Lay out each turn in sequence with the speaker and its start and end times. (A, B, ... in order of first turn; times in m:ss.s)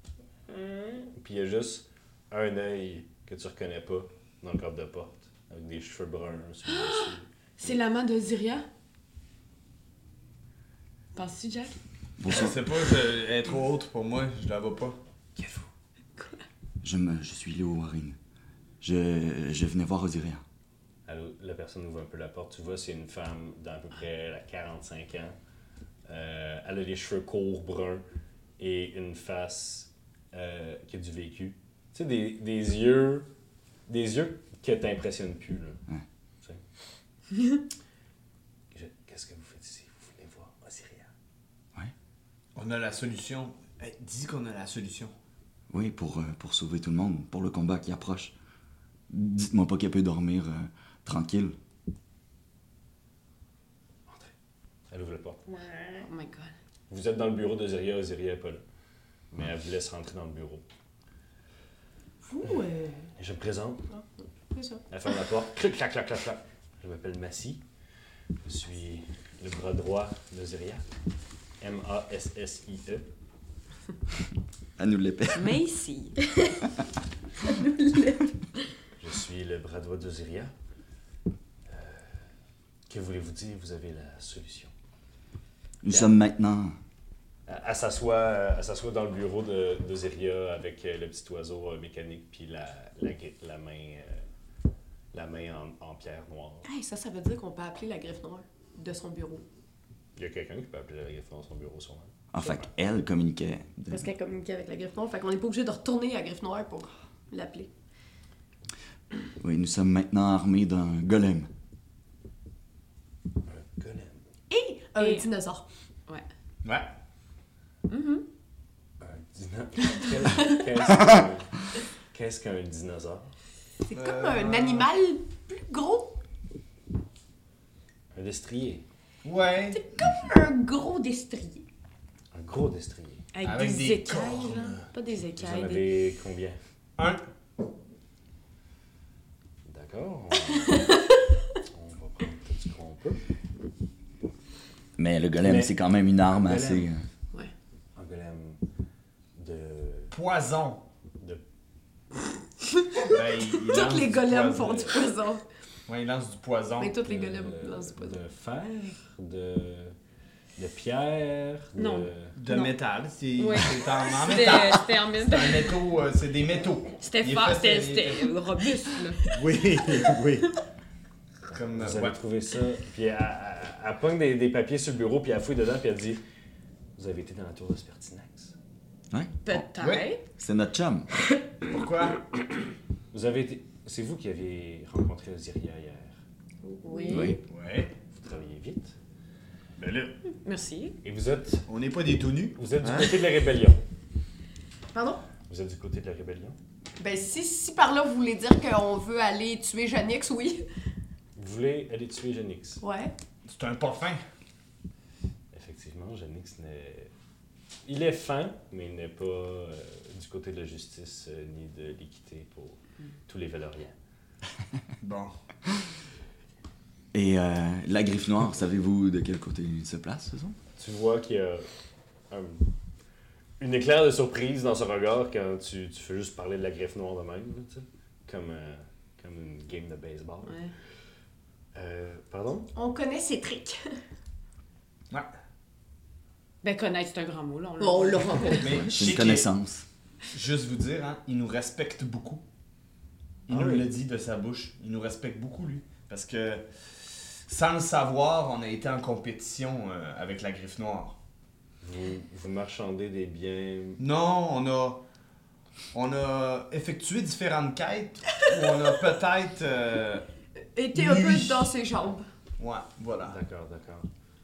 0:00.5-0:07.7 A
0:06.7-0:08.7 B
0:11.1-0:11.7 B
0:12.2-0:12.6 C
0:12.2-0:15.0 D
0:15.4-0:15.7 A
0:16.8-0:18.2 C
0:18.8-0:20.4 C
0:21.0-0:25.3 A
0:26.1-0:28.0 A
0:28.6-0:33.3 A
0:33.9-0:35.8 A
0:38.7-0:41.1 A
0:42.5-0:45.1 D
0:45.7-0:48.3 C
0:49.1-0:51.5 C
0:54.1-0:54.3 A
0:54.9-0:55.4 A
0:55.5-0:56.1 E
0:56.0-0:56.5 B
0:56.9-0:58.6 A
0:59.3-1:00.6 A
1:02.2-1:03.1 E
1:03.2-1:03.9 A
1:03.9-1:04.8 E
1:04.9-1:07.6 A
1:08.4-1:10.8 A
1:11.6-1:13.1 A
1:14.8-1:15.6 C
1:15.3-1:16.2 B
1:17.4-1:18.7 E
1:19.0-1:20.5 A
1:21.7-1:22.2 A
1:22.9-1:24.7 A
1:25.8-1:26.8 C
1:27.5-1:34.2 A
1:35.1-1:36.6 A
1:36.6-1:39.4 E
1:40.2-1:42.6 A
1:42.3-1:44.0 C
1:43.9-1:47.7 E
1:49.4-1:51.5 C
1:53.5-1:54.2 A
1:54.5-1:55.6 E
1:55.0-1:55.3 B
1:56.6-1:56.9 D
1:57.9-1:58.2 B
1:59.0-2:03.3 A
2:03.8-2:06.2 E
2:03.9-2:04.9 D
2:08.1-2:08.8 A
2:09.2-2:09.8 D
2:09.7-2:11.6 E
2:12.3-2:13.3 A
2:13.3-2:15.8 B
2:13.4-2:14.9 D
2:15.4-2:16.6 A
2:17.0-2:17.2 D
2:19.7-2:21.0 A
2:21.6-2:23.2 A
2:25.0-2:27.0 C
2:25.4-2:25.7 A
2:26.3-2:26.9 A
2:27.9-2:28.6 A
2:29.4-2:30.1 A
2:30.1-2:30.8 D
2:33.0-2:35.4 E
2:33.0-2:34.9 D
2:35.9-2:37.0 D
2:36.8-2:38.2 E
2:37.0-2:39.9 A
2:40.6-2:42.3 A
2:41.7-2:42.7 B
2:42.4-2:48.3 D
2:43.4-2:45.8 B
2:47.0-2:49.3 B
2:49.3-2:50.6 D
2:51.5-2:52.2 D
2:51.8-2:56.2 A
2:57.0-2:58.5 A
2:59.1-2:59.7 C
2:59.4-3:00.2 B
2:59.8-3:00.1 D
3:00.3-3:01.1 C
3:01.6-3:02.2 D
3:03.1-3:06.2 A
3:06.6-3:07.4 E
3:06.9-3:07.3 B
3:07.1-3:07.4 C
3:07.4-3:07.9 D
3:08.1-3:08.9 A
3:09.8-3:10.2 D
3:10.3-3:11.0 B
3:11.0-3:11.6 A
3:11.7-3:13.1 D
3:12.6-3:13.8 A
3:14.9-3:15.2 E
3:15.5-3:16.6 A
3:17.0-3:20.6 E
3:21.4-3:22.8 A
3:22.8-3:23.1 E
3:23.4-3:24.2 D
3:25.5-3:27.1 A
3:27.8-3:33.9 A
3:35.0-3:35.3 D
3:37.1-3:40.6 C
3:40.8-3:41.7 A
3:42.3-3:42.6 A
3:43.6-3:50.6 A
3:50.4-3:50.7 B
3:51.7-3:52.7 A
3:52.7-3:54.0 E
3:56.6-3:58.7 B
3:57.8-3:58.7 E
3:58.5-3:59.5 D
3:58.7-3:59.8 C
4:00.3-4:02.4 D
4:03.5-4:11.2 D
4:03.5-4:03.9 A
4:11.8-4:14.0 A
4:14.0-4:15.0 D
4:15.9-4:20.2 D
4:20.7-4:22.3 E
4:20.9-4:21.7 D
4:22.6-4:23.4 D
4:23.2-4:24.1 A